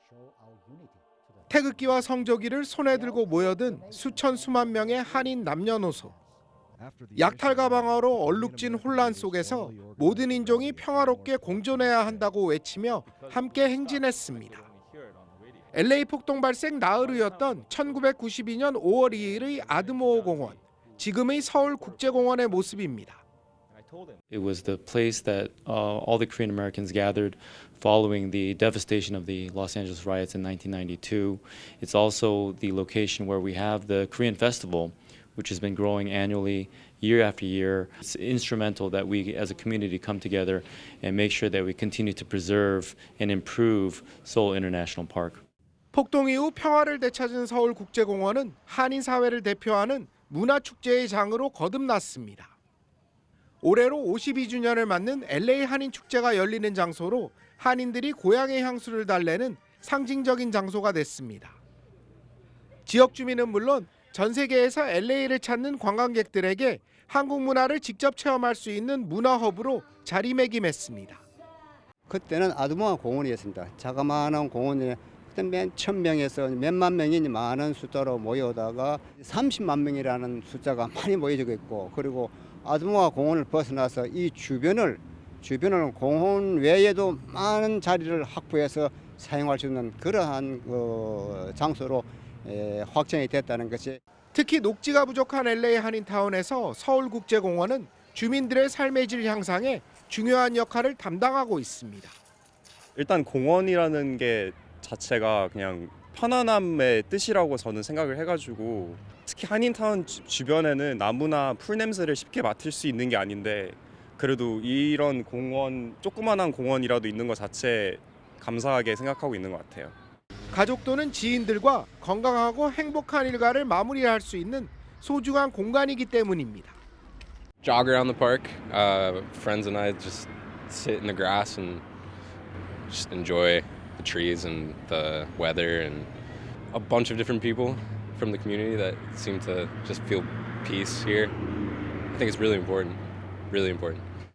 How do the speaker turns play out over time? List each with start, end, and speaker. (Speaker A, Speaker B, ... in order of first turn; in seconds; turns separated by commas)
Speaker A: 1.5-6.2, Speaker A: 7.2-14.7, Speaker A: 15.7-23.2, Speaker B: 24.3-45.5, Speaker A: 45.9-52.5, Speaker A: 53.6-61.6, Speaker A: 62.9-71.2, Speaker C: 72.1-94.0, Speaker A: 94.3-102.2, Speaker D: 103.0-120.0, Speaker A: 120.5-126.8, Speaker E: 127.6-131.8, Speaker E: 132.9-136.1, Speaker E: 136.7-141.4, Speaker E: 142.1-144.1